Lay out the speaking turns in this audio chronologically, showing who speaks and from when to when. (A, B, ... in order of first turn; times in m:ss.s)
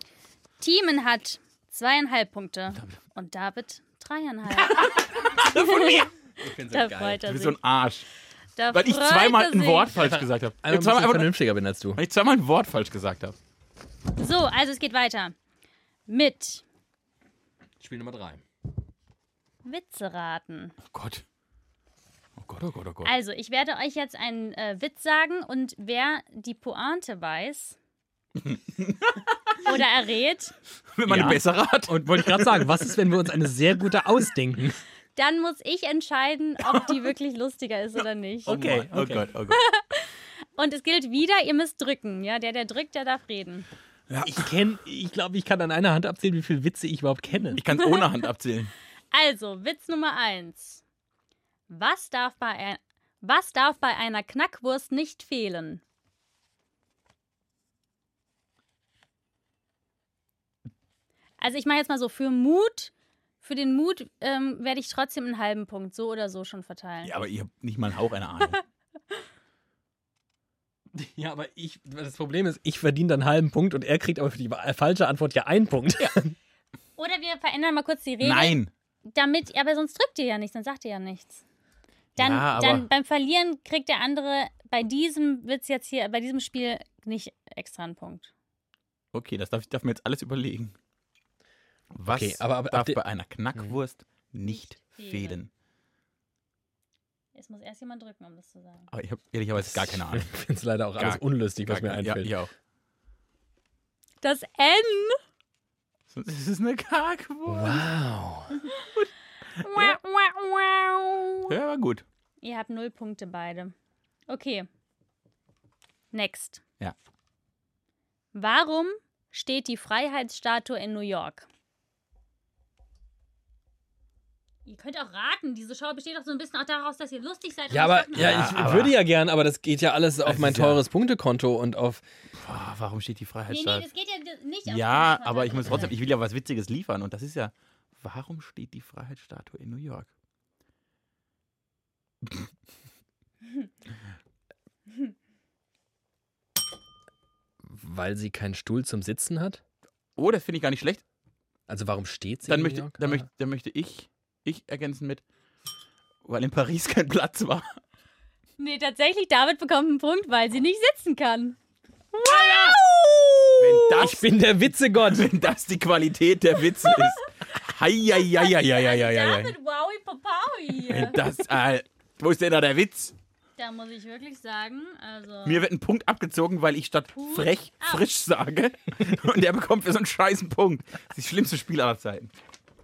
0:00.6-0:06.1 A
0:04.5-0:06.1 B
0:06.4-0:07.2 C
0:06.7-0:07.6 A
0:07.2-0:08.1 B
0:08.6-0:09.9 A
0:08.7-0:11.4 B
0:09.9-0:12.0 C
0:12.0-0:13.4 B
0:14.2-0:15.4 A
0:16.1-0:16.6 A
0:17.8-0:18.4 C
0:19.6-0:20.8 A
0:20.9-0:21.2 B
0:22.4-0:23.1 B
0:23.0-0:27.8 A
0:28.4-0:29.6 B
0:29.6-0:30.6 A
0:31.0-0:33.0 B
0:31.1-0:34.8 C
0:35.2-0:38.6 A
0:38.5-0:39.3 C
0:38.5-0:39.6 B
0:39.5-0:43.7 A
0:44.1-0:44.5 B
0:44.2-0:47.6 C
0:47.6-0:48.7 B
0:47.7-0:48.2 A
0:49.1-0:50.8 A
0:51.7-0:55.8 A
1:01.4-1:07.2 A
1:07.0-1:08.6 B
1:10.9-1:16.4 C
1:17.0-1:21.4 A
1:18.2-1:18.7 B
1:22.2-1:22.9 B
1:22.2-1:28.3 A
1:29.1-1:30.8 B
1:31.9-1:35.5 B
1:32.1-1:33.0 C
1:34.4-1:35.4 A
1:37.3-1:38.9 A
1:38.9-1:40.3 B
1:39.6-1:42.4 C
1:41.0-1:42.5 B
1:44.2-1:45.2 A
1:46.1-1:47.9 B
1:47.5-1:48.6 C
1:49.0-1:50.0 B
1:49.6-1:51.5 A
1:51.5-1:52.0 B
1:52.4-1:53.7 A
1:54.3-1:54.7 A
1:56.1-1:56.6 A
1:58.3-2:01.5 A
2:04.7-2:08.4 A
2:07.7-2:12.0 C
2:08.2-2:09.0 B
2:10.2-2:10.8 B
2:12.4-2:13.9 B
2:13.5-2:16.0 A
2:14.7-2:20.1 B
2:27.6-2:29.6 C
2:30.2-2:31.0 B
2:31.7-2:33.3 C
2:32.5-2:35.2 B
2:36.2-2:37.7 B
2:38.6-2:41.6 A
2:42.2-2:42.8 C
2:42.3-2:43.6 A
2:43.6-2:44.2 B
2:43.6-2:45.3 C
2:45.0-2:49.5 B
2:46.8-2:47.2 A
2:48.3-2:51.2 A
2:50.9-2:53.1 B
2:53.6-2:55.6 A
2:55.4-3:02.3 B
2:57.1-2:58.1 A